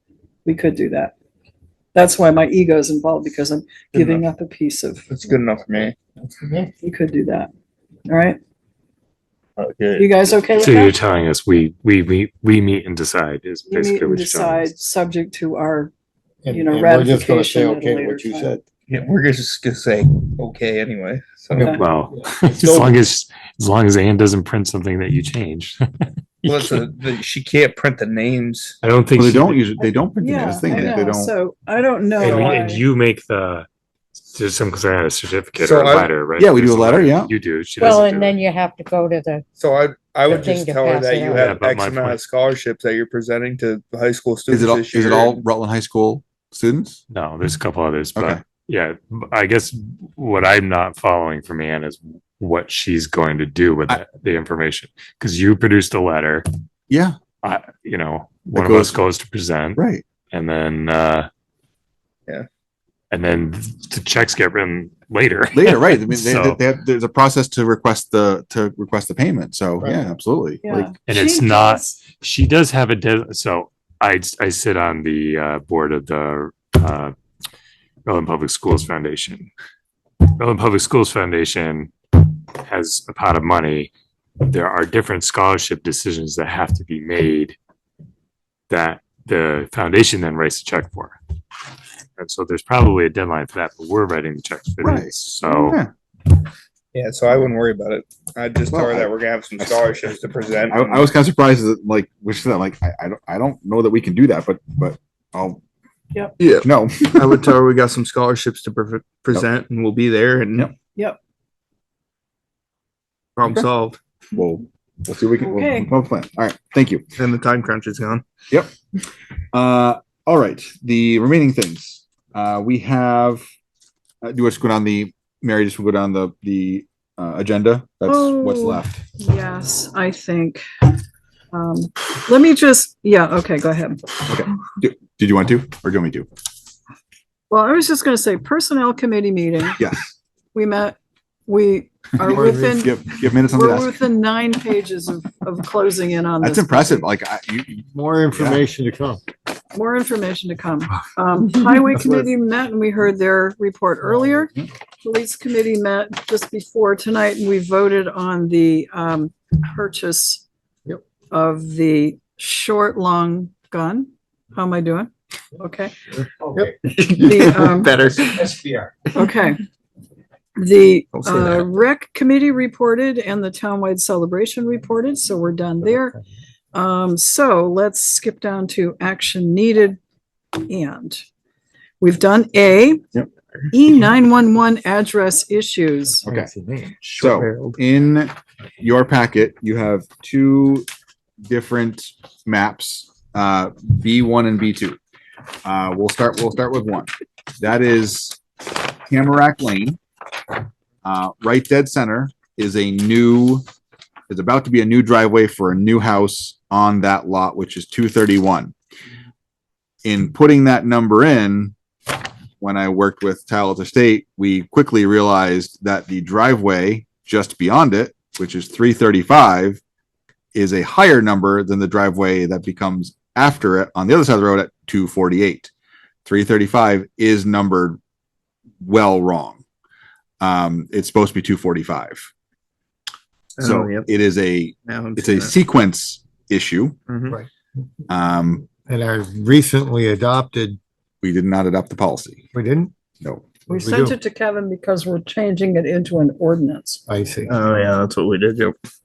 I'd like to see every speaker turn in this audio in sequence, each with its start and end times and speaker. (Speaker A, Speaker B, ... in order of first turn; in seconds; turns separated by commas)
Speaker A: 0.5-1.1, Speaker A: 1.9-5.0, Speaker B: 3.9-4.2, Speaker B: 5.1-6.5, Speaker A: 6.8-7.5, Speaker A: 8.1-8.4, Speaker B: 9.6-10.6, Speaker A: 10.0-11.0, Speaker C: 10.6-14.7, Speaker A: 13.7-15.9, Speaker D: 16.4-18.6, Speaker A: 16.5-18.6, Speaker B: 18.9-21.8, Speaker C: 21.7-26.9, Speaker B: 22.4-23.0, Speaker B: 26.4-28.8, Speaker C: 28.8-29.9, Speaker E: 29.2-31.3, Speaker A: 30.2-32.8, Speaker B: 32.2-32.6, Speaker C: 32.2-33.7, Speaker C: 34.3-38.4, Speaker B: 35.6-36.1, Speaker E: 36.4-37.3, Speaker F: 37.8-39.4, Speaker B: 39.6-45.4, Speaker F: 40.3-41.5, Speaker C: 41.3-42.2, Speaker E: 44.5-47.0, Speaker C: 47.1-56.5, Speaker E: 48.2-48.4, Speaker E: 56.9-57.2, Speaker C: 57.4-61.3, Speaker E: 58.5-59.0, Speaker E: 59.8-60.0, Speaker C: 63.1-66.6, Speaker E: 65.5-70.7, Speaker A: 70.6-72.0, Speaker C: 71.1-77.1, Speaker C: 78.1-79.5, Speaker C: 80.4-81.9, Speaker C: 82.6-83.9, Speaker C: 84.4-87.6, Speaker C: 88.7-91.2, Speaker C: 92.2-95.8, Speaker E: 94.8-95.9, Speaker B: 96.9-101.1, Speaker E: 98.7-100.0, Speaker E: 100.7-105.6, Speaker B: 106.4-110.7, Speaker E: 106.4-107.5, Speaker B: 113.4-114.0, Speaker E: 114.3-117.1, Speaker A: 115.4-115.9, Speaker B: 117.2-118.2, Speaker E: 119.5-123.4, Speaker E: 124.2-128.9, Speaker A: 128.1-130.6, Speaker A: 131.5-134.0, Speaker E: 134.3-136.3, Speaker A: 137.5-139.8, Speaker E: 139.8-140.1, Speaker A: 140.5-147.1, Speaker E: 142.2-143.9, Speaker D: 142.3-142.9, Speaker E: 146.4-148.6, Speaker D: 147.9-149.2, Speaker A: 149.7-160.4, Speaker D: 154.0-154.5, Speaker A: 161.3-166.1, Speaker D: 166.3-166.7, Speaker B: 166.7-168.6, Speaker A: 167.2-167.9, Speaker D: 168.3-168.9, Speaker A: 169.1-169.6, Speaker A: 170.6-176.2, Speaker B: 171.1-171.7, Speaker A: 176.7-180.0, Speaker A: 180.7-181.2, Speaker A: 182.0-183.0, Speaker A: 183.7-186.3, Speaker E: 186.2-186.5, Speaker D: 186.2-187.8, Speaker E: 187.2-190.9, Speaker E: 191.4-195.0, Speaker E: 195.7-198.4, Speaker E: 199.1-200.0, Speaker E: 201.0-203.6, Speaker E: 204.3-208.7, Speaker E: 210.0-211.7, Speaker E: 212.6-219.8, Speaker E: 220.5-225.7, Speaker E: 226.3-228.0, Speaker E: 228.8-229.6, Speaker E: 230.4-232.3, Speaker B: 233.6-234.1, Speaker E: 233.6-237.0, Speaker B: 234.8-235.6, Speaker B: 237.1-237.4, Speaker E: 238.1-238.7, Speaker D: 238.8-240.8, Speaker E: 241.2-242.4, Speaker D: 242.5-242.9, Speaker D: 243.7-244.2, Speaker A: 243.7-247.0, Speaker D: 247.1-247.6, Speaker B: 247.5-248.8